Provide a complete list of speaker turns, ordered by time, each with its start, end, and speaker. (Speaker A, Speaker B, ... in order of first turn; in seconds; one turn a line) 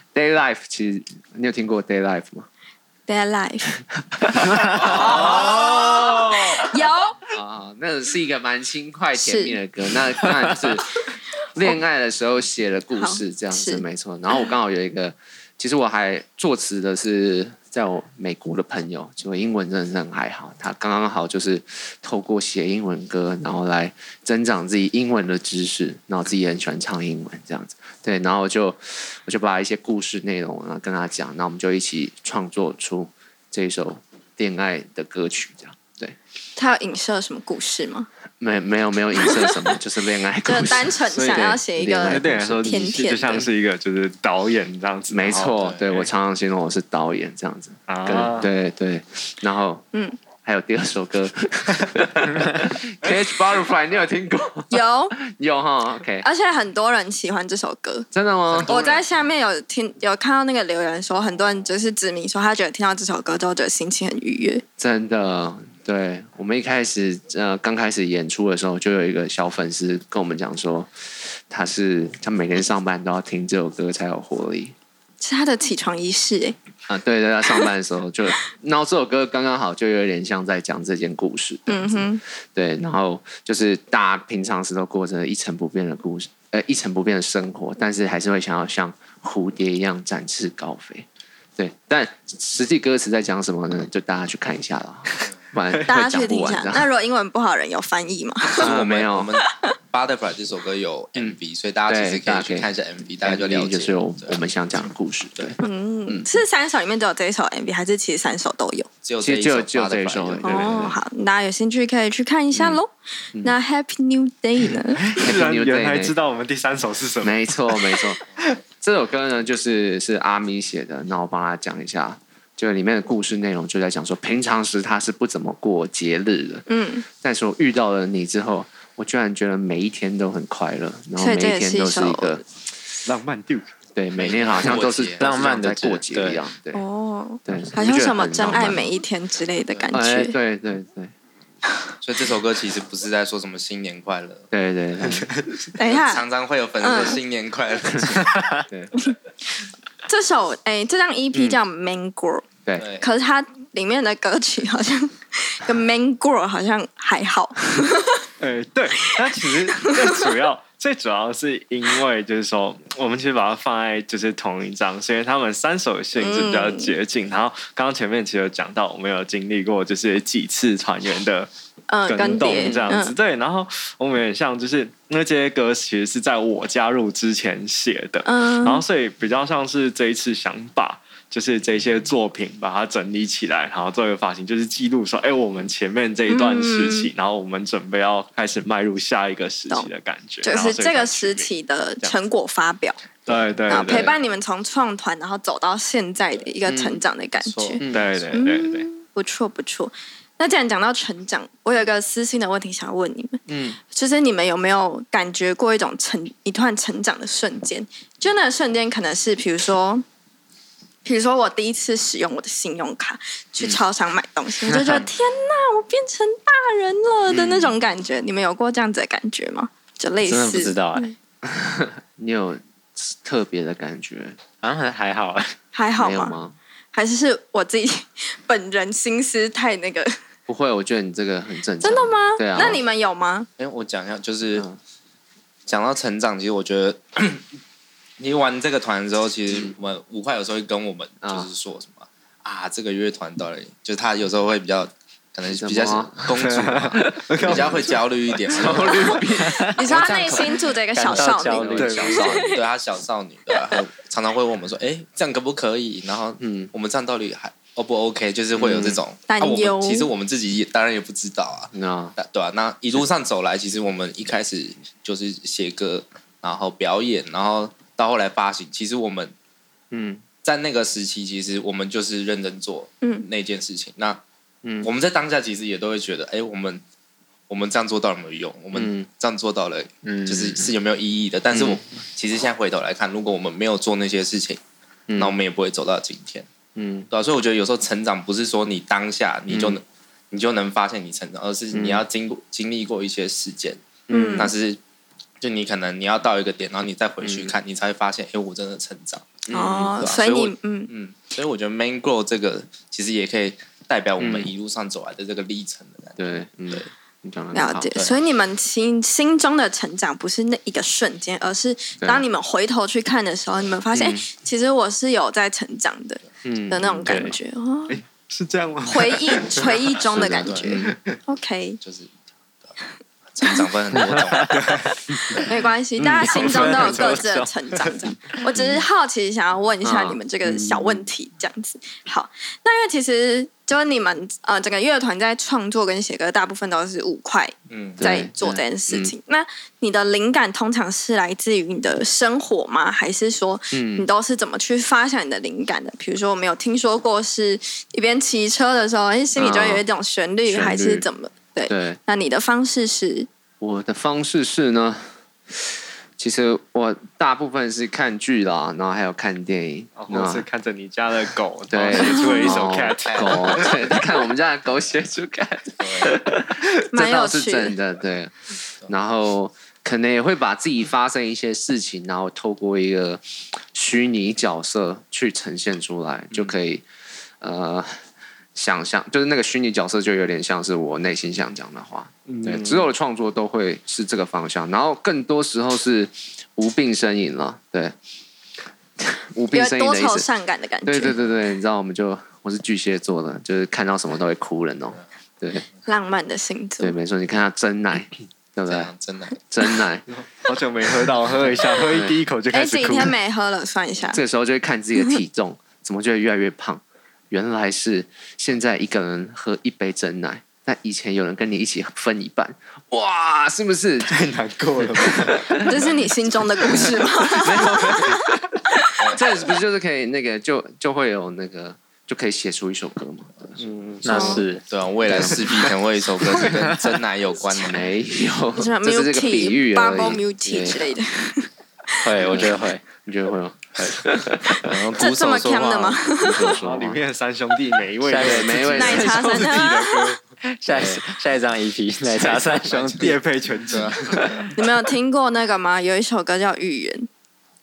Speaker A: 0.1-2.5
Speaker B: 3.1-3.7
Speaker A: 4.2-6.4
Speaker B: 5.3-7.2
Speaker C: 5.4-6.0
Speaker A: 7.3-36.2
Speaker B: 9.2-9.6
Speaker B: 12.9-13.8
Speaker B: 36.6-38.1
Speaker A: 38.4-42.9
Speaker B: 39.2-39.5
Speaker B: 40.5-43.5
Speaker C: 41.2-41.5
Speaker C: 42.0-45.6
Speaker A: 45.1-49.9
Speaker D: 45.6-45.9
Speaker C: 47.9-48.5
Speaker A: 50.4-56.3
Speaker B: 54.7-55.1
Speaker B: 56.2-58.1
Speaker A: 58.1-58.7
Speaker D: 58.5-59.0
Speaker B: 58.7-64.6
Speaker A: 64.8-74.8
Speaker B: 75.2-76.6
Speaker A: 76.9-96.9
Speaker B: 81.7-82.2
Speaker B: 95.8-98.7
Speaker A: 98.6-99.3
Speaker D: 98.6-104.4
Speaker A: 101.2-102.7
Speaker A: 103.2-106.3
Speaker B: 105.6-108.9
Speaker D: 109.0-110.9
Speaker A: 109.2-111.0
Speaker B: 110.4-115.0
Speaker C: 115.0-118.5
Speaker A: 115.2-116.2
Speaker A: 117.2-118.2
Speaker A: 118.8-132.4
Speaker B: 126.7-127.0
Speaker B: 131.2-132.4
Speaker C: 133.1-133.7
Speaker A: 133.9-136.8
Speaker D: 134.2-135.3
Speaker E: 135.2-136.4
Speaker B: 136.7-140.4
Speaker A: 137.4-138.9
Speaker A: 139.9-141.1
Speaker D: 142.0-144.5
Speaker A: 144.5-145.3
Speaker B: 145.8-146.2
Speaker D: 145.8-148.5
Speaker B: 146.8-147.2
Speaker A: 148.7-148.9
Speaker B: 150.1-152.4
Speaker D: 152.8-153.1
Speaker B: 153.0-158.2
Speaker C: 158.4-171.5
Speaker B: 166.2-166.9
Speaker B: 171.9-173.1
Speaker C: 172.1-191.5
Speaker A: 172.6-172.8
Speaker B: 178.2-178.8
Speaker B: 186.3-187.1
Speaker B: 190.4-193.0
Speaker C: 193.3-194.1
Speaker A: 193.3-194.1
Speaker B: 193.7-197.8
Speaker A: 196.7-197.0
Speaker D: 197.4-197.8
Speaker A: 197.8-198.2
Speaker C: 197.9-198.9
Speaker B: 198.3-210.0
Speaker A: 203.5-203.8
Speaker B: 211.1-221.2
Speaker A: 217.3-217.8
Speaker E: 220.2-221.1
Speaker A: 221.4-224.4
Speaker E: 224.6-225.6
Speaker B: 225.7-226.4
Speaker A: 226.0-226.6
Speaker B: 226.9-230.2
Speaker A: 230.5-232.8
Speaker B: 231.8-233.5
Speaker D: 233.6-234.7
Speaker D: 235.7-237.4
Speaker D: 238.2-249.2
Speaker A: 239.5-239.8
Speaker A: 241.2-241.5
Speaker A: 245.4-246.4
Speaker C: 246.4-248.0
Speaker A: 247.0-247.9
Speaker A: 248.5-252.4
Speaker B: 249.7-252.6
Speaker E: 250.9-252.4
Speaker C: 251.8-252.2
Speaker D: 252.3-269.3
Speaker A: 256.4-256.7
Speaker A: 258.6-259.0
Speaker B: 259.3-260.1
Speaker A: 261.7-262.2
Speaker A: 269.9-270.2
Speaker D: 270.4-274.2
Speaker A: 274.6-274.9
Speaker D: 274.8-276.8
Speaker D: 277.5-284.6
Speaker A: 278.7-279.1
Speaker E: 280.0-280.7
Speaker A: 281.5-281.8
Speaker A: 285.1-285.4
Speaker D: 285.2-286.5
Speaker A: 286.8-287.1
Speaker D: 287.1-293.8
Speaker A: 289.5-289.8
Speaker A: 291.7-292.0
Speaker A: 294.1-294.5
Speaker B: 294.1-294.5
Speaker D: 294.4-294.8
Speaker D: 295.4-306.9
Speaker A: 297.2-297.6
Speaker A: 299.5-300.0
Speaker B: 299.5-300.9
Speaker A: 304.2-304.5
Speaker A: 306.2-307.9
Speaker B: 307.5-318.0
Speaker A: 312.0-312.3
Speaker A: 313.9-314.2
Speaker A: 316.4-317.3
Speaker E: 317.1-317.3
Speaker C: 317.9-319.9
Speaker B: 318.9-321.8
Speaker A: 320.1-321.0
Speaker D: 320.2-320.7
Speaker D: 321.8-322.1
Speaker D: 323.3-325.4
Speaker C: 324.4-325.0
Speaker B: 325.3-353.3
Speaker C: 326.2-327.9
Speaker A: 328.6-328.8
Speaker A: 329.8-331.1
Speaker D: 337.7-338.0
Speaker A: 338.0-339.1
Speaker A: 343.7-344.1
Speaker A: 349.4-349.8
Speaker A: 350.5-351.1
Speaker A: 351.7-352.0
Speaker A: 353.6-360.5
Speaker C: 360.0-363.8
Speaker A: 361.7-376.9
Speaker D: 363.0-363.9
Speaker D: 365.8-366.2
Speaker B: 366.9-367.8
Speaker A: 377.4-378.0
Speaker A: 378.6-387.9
Speaker A: 389.0-390.3
Speaker B: 389.5-391.1
Speaker A: 390.9-395.7
Speaker B: 395.9-397.0
Speaker A: 396.8-398.9
Speaker D: 398.7-399.4
Speaker A: 399.4-400.1
Speaker C: 400.2-403.1
Speaker A: 401.9-402.2
Speaker B: 402.5-404.2
Speaker A: 404.1-414.3
Speaker C: 414.1-415.7
Speaker A: 414.8-415.7
Speaker B: 415.6-418.9
Speaker A: 416.7-418.2
Speaker D: 419.0-419.2
Speaker A: 419.1-424.4
Speaker E: 424.0-424.6
Speaker B: 424.1-424.4
Speaker D: 424.7-427.9
Speaker A: 425.1-425.7
Speaker A: 426.3-426.8
Speaker A: 427.5-431.0
Speaker B: 428.6-432.0
Speaker E: 432.0-432.8
Speaker A: 432.1-434.7
Speaker D: 434.6-436.0
Speaker B: 435.0-436.5
Speaker A: 436.2-437.0
Speaker C: 436.5-440.2
Speaker E: 438.1-439.7
Speaker A: 438.2-439.2
Speaker B: 438.8-440.2
Speaker E: 440.5-443.1
Speaker A: 440.7-441.0
Speaker D: 442.3-443.1
Speaker C: 443.0-444.5
Speaker D: 443.7-444.4
Speaker B: 444.6-447.1